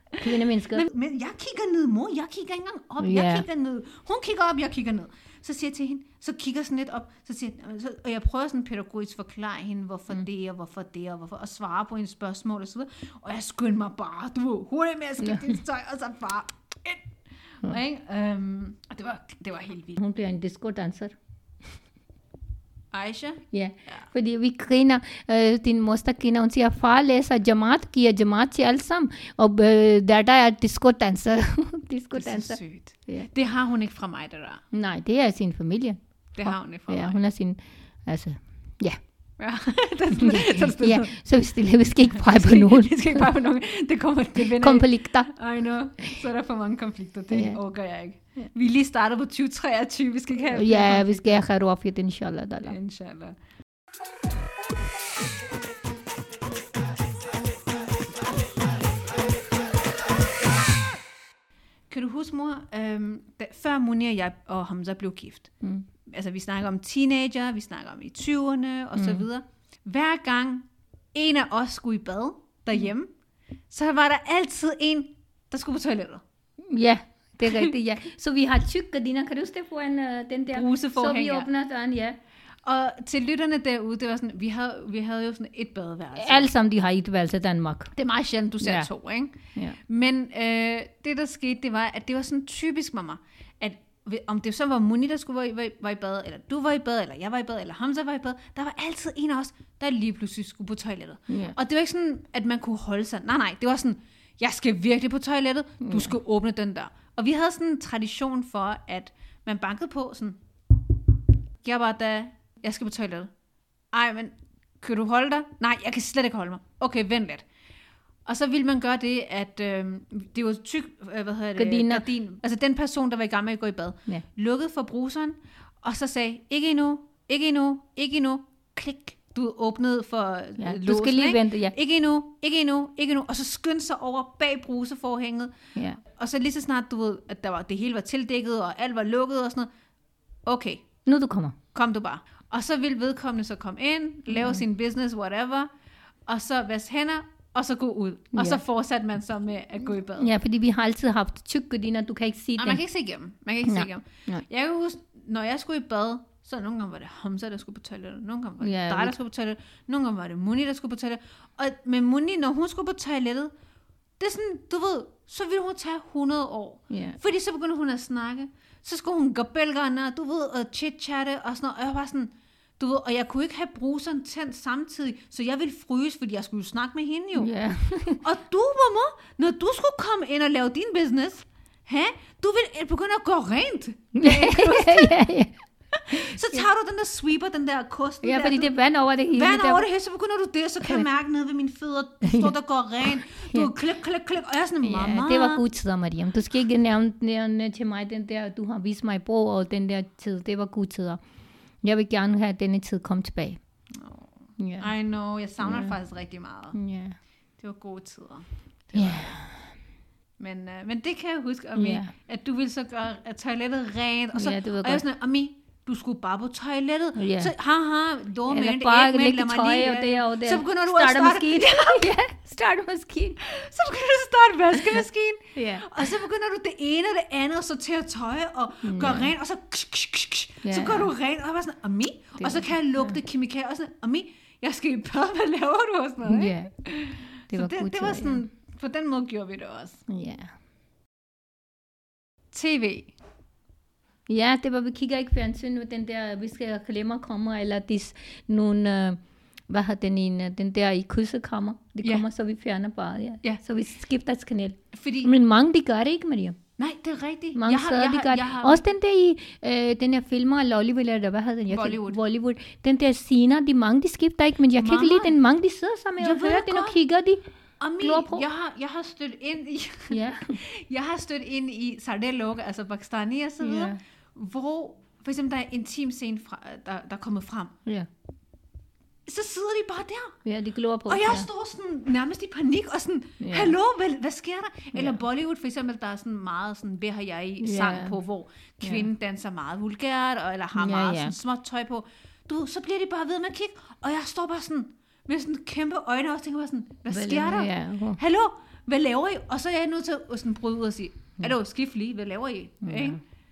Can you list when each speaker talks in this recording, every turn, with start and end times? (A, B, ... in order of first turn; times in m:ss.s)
0:00.2-0:00.9 A
0:00.7-0:20.0 B
0:03.0-0:03.4 A
0:15.2-0:15.6 A
0:20.0-0:21.1 A
0:22.9-0:24.1 B
0:23.5-0:33.3 A
0:32.1-0:34.6 B
0:34.7-0:39.0 A
0:36.4-0:37.2 B
0:39.4-0:41.2 B
0:40.2-0:43.2 A
0:42.1-0:51.2 B
0:44.4-0:45.3 A
0:47.3-0:47.6 A
0:50.5-0:52.8 A
0:52.6-0:53.4 B
1:01.9-1:05.5 B
1:06.0-1:13.1 B
1:09.0-1:09.2 A
1:13.7-1:16.2 B
1:16.6-1:22.2 A
1:17.4-1:17.7 B
1:20.5-1:21.5 B
1:22.6-1:26.5 B
1:26.2-1:27.9 A
1:27.9-1:50.4 B
1:28.6-1:28.9 A
1:41.3-1:41.6 A
1:45.8-1:46.1 A
1:51.6-1:53.3 B
1:53.9-1:57.4 B
1:58.2-2:15.6 B
2:01.6-2:02.0 A
2:10.6-2:11.7 A
2:15.7-2:16.0 A
2:16.1-2:19.7 B
2:20.5-2:20.9 B
2:21.0-2:21.6 A
2:21.7-2:25.7 B
2:24.3-2:24.6 A
2:26.3-2:30.3 B
2:28.4-2:28.6 A
2:30.2-2:32.8 A
2:32.6-2:43.5 B
2:33.6-2:34.4 A
2:38.6-2:39.2 A
2:44.2-2:57.5 B
2:46.9-2:47.2 A
2:57.4-2:58.2 A
2:58.2-3:05.1 B
3:04.1-3:05.5 A
3:05.9-3:08.7 B
3:06.1-3:06.7 A
3:08.2-3:09.8 A
3:09.3-3:15.6 B
3:12.2-3:12.5 A
3:13.0-3:13.7 A
3:14.8-3:21.2 A
3:21.8-3:23.6 A
3:23.9-3:26.8 B
3:24.6-3:24.9 A
3:25.6-3:26.0 A
3:26.7-3:27.2 A
3:27.6-3:29.4 B
3:28.9-3:29.6 A
3:30.4-3:42.1 B
3:31.8-3:32.1 A
3:34.4-3:35.0 A
3:37.2-3:37.5 A
3:38.5-3:43.4 A
3:43.4-4:00.0 B
3:44.7-3:45.0 A
3:45.5-3:46.1 A
3:48.8-3:49.3 A
3:50.6-3:51.1 A
3:52.4-3:53.2 A
3:56.2-3:56.7 A
3:57.5-3:58.4 A
4:00.1-4:00.5 A
4:02.5-4:03.1 B
4:04.3-4:16.6 A
4:14.9-4:15.3 B
4:16.8-4:18.8 B
4:17.6-4:27.4 A
4:21.7-4:22.2 B
4:24.8-4:25.4 B
4:26.2-4:27.0 B
4:27.8-4:37.8 B
4:28.0-4:28.4 A
4:30.1-4:30.6 A
4:33.6-4:34.0 A
4:39.2-4:40.4 B
4:40.4-4:41.5 A
4:41.1-5:03.2 B
4:43.4-4:43.7 A
4:47.6-4:48.2 A
4:48.8-4:49.1 A
4:50.8-4:51.4 A
4:57.1-4:58.2 A
5:02.8-5:03.2 A